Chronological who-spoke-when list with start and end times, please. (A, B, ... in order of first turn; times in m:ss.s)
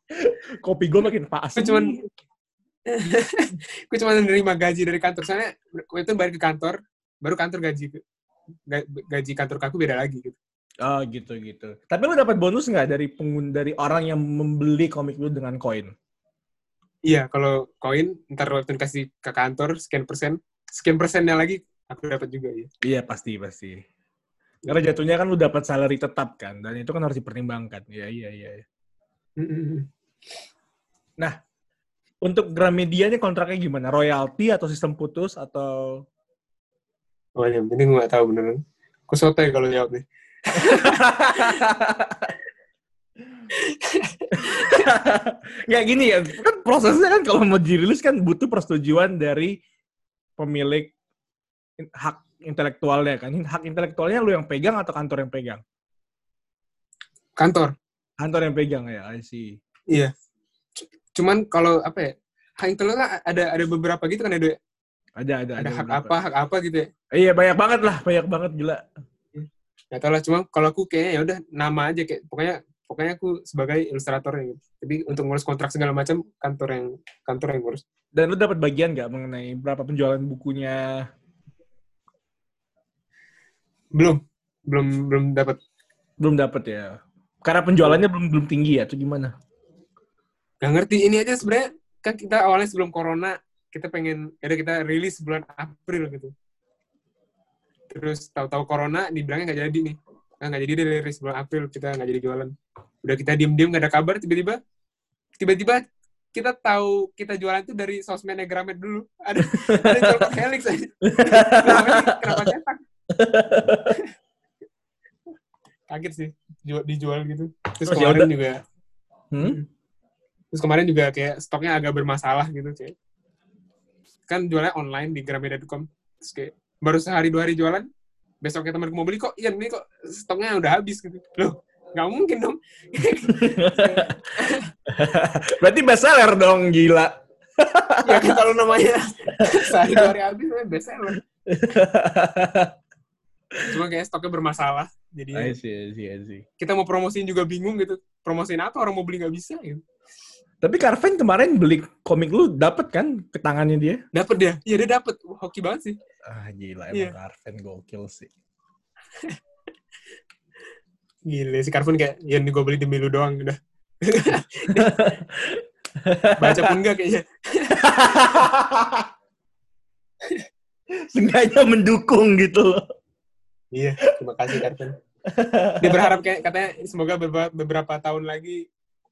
0:00.2-0:02.0 A
0:01.6-0:02.0 B
0:02.8-0:08.0 B
0:08.7-0:10.4 B
0:10.8-0:15.9 A
0:17.1-0:22.7 B
0:22.8-0:23.8 A
0:24.6-0:28.6 A
0:29.4-0:29.9 B
0:32.2-0:36.0 A
0:37.4-0:41.6 B
0:40.6-0:42.3 A
0:43.5-0:44.8 B
0:44.3-0:49.6 A
0:50.4-0:50.9 A
0:51.8-0:55.6 A
0:57.4-0:57.7 B
0:58.2-0:59.6 A
1:01.1-1:04.6 B
1:05.2-1:06.1 A
1:05.6-1:06.9 B
1:07.1-1:08.8 A
1:09.3-1:17.8 B
1:18.1-1:21.1 A
1:23.9-1:25.6 B
1:26.2-1:29.3 A
1:30.6-1:36.3 B
1:37.9-1:42.5 B
1:43.0-1:44.6 B
1:45.4-1:52.8 B
1:49.4-1:50.3 A
1:51.0-1:52.5 A
1:53.1-1:54.0 A
1:55.9-1:58.6 B
1:57.8-1:58.3 A
1:59.3-1:59.6 A
1:59.4-1:59.6 B
2:00.5-2:02.9 B
2:04.3-2:07.9 B
2:08.4-2:14.7 B
2:13.3-2:14.1 A
2:14.9-2:18.4 A
2:18.0-2:21.2 B
2:19.4-2:20.1 A
2:21.5-2:22.7 A
2:23.7-2:25.6 B
2:25.3-2:26.4 A
2:26.6-2:29.8 B
2:30.6-2:34.0 A
2:34.1-2:36.0 B
2:36.2-2:38.3 A
2:41.3-2:45.2 B
2:44.7-2:46.7 A
2:46.4-2:47.8 B
2:47.8-2:49.1 A
2:51.1-2:52.8 A
2:53.7-2:54.9 B
2:55.3-2:56.1 A
2:55.8-2:58.6 B